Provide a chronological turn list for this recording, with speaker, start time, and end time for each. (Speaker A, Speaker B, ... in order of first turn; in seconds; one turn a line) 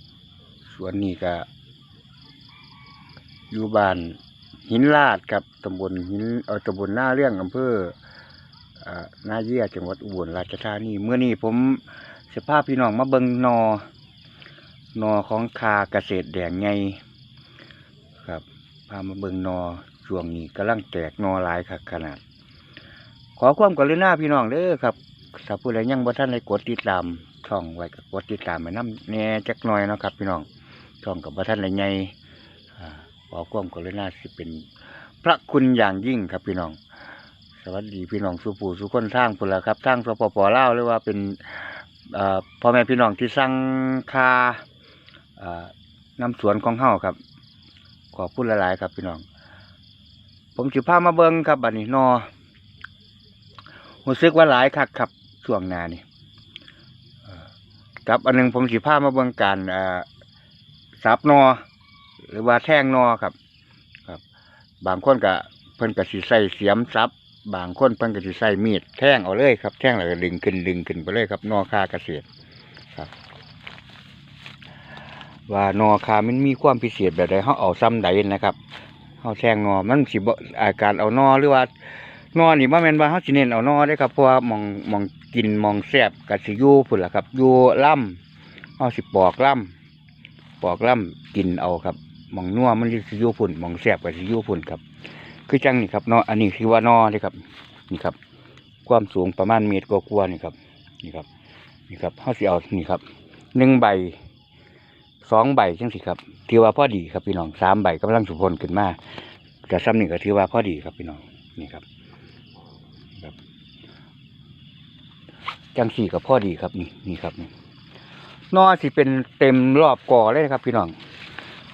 Speaker A: 0.7-1.4
Speaker A: 3.5-8.0
Speaker A: 8.8-13.8
Speaker A: 14.9-17.0
Speaker A: 18.2-22.2
Speaker A: 23.4-30.5
Speaker A: 31.0-32.1
Speaker A: 32.8-34.7
Speaker A: 35.2-36.8
Speaker A: 37.6-44.6
Speaker A: 45.4-47.2
Speaker A: 48.1-49.2
Speaker A: 50.5-52.3
Speaker A: 54.0-56.0
Speaker A: 58.0-60.0
Speaker A: 61.0-61.6
Speaker A: 62.3-63.3
Speaker A: 64.8-72.2
Speaker A: 75.5-78.6
Speaker A: 79.2-81.7
Speaker A: 82.3-88.2
Speaker A: 88.8-89.7
Speaker A: 90.6-94.8
Speaker A: 95.5-98.2
Speaker A: 98.8-101.3
Speaker A: 101.9-103.0
Speaker A: 103.5-104.2
Speaker A: 105.2-109.0
Speaker A: 109.7-111.8
Speaker A: 115.7-117.5
Speaker A: 118.5-120.9